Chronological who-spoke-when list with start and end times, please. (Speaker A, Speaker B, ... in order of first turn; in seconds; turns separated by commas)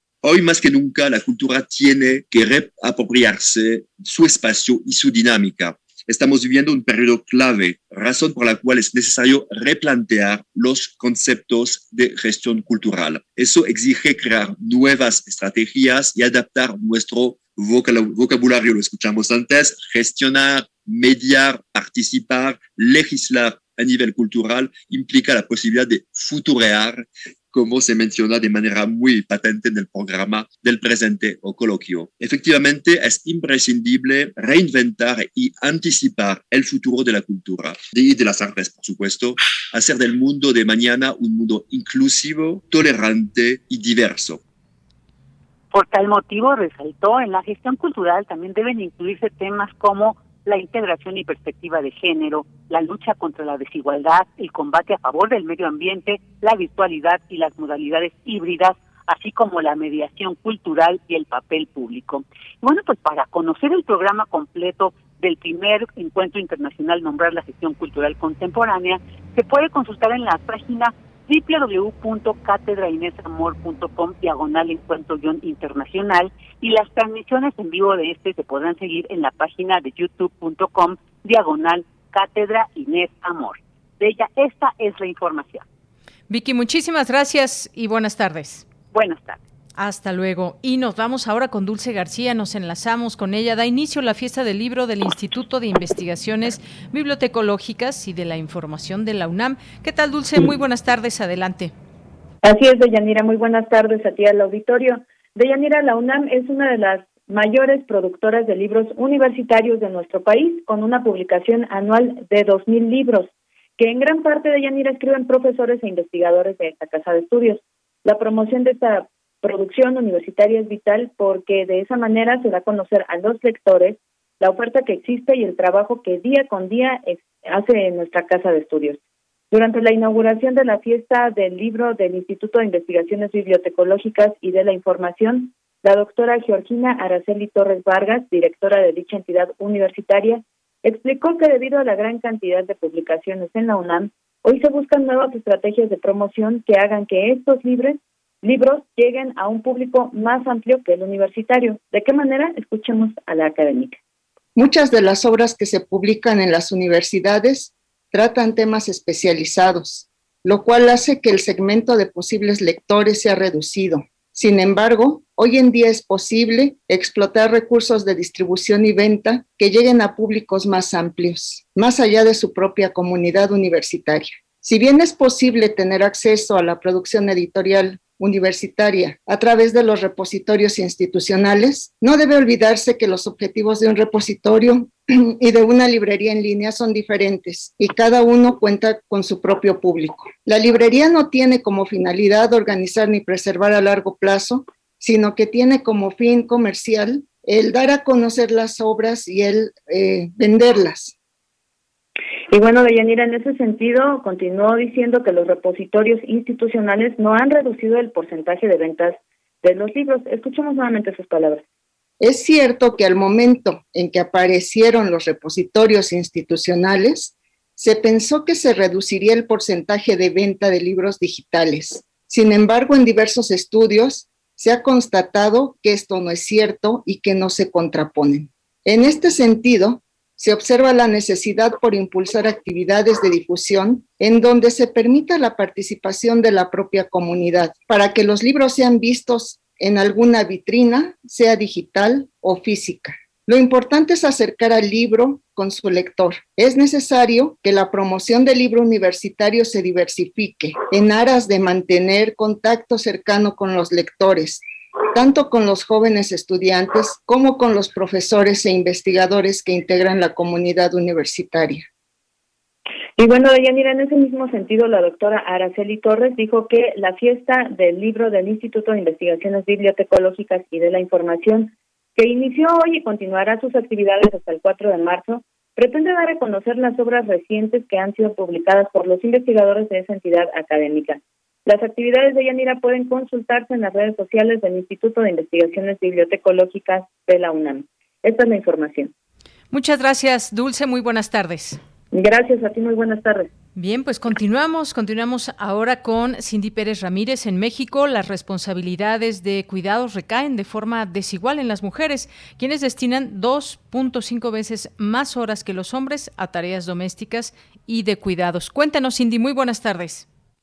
Speaker A: 0.2-44.4, Speaker B: 45.7-85.6, Speaker C: 86.3-88.6, Speaker B: 88.9-89.4, Speaker C: 89.8-101.7, Speaker D: 102.4-129.0, Speaker D: 129.5-154.0, Speaker E: 154.6-201.1, Speaker D: 202.5-211.6, Speaker E: 212.2-254.6, Speaker E: 255.1-261.9, Speaker D: 263.2-289.1, Speaker C: 289.7-291.8, Speaker D: 292.1-293.5, Speaker C: 293.8-310.3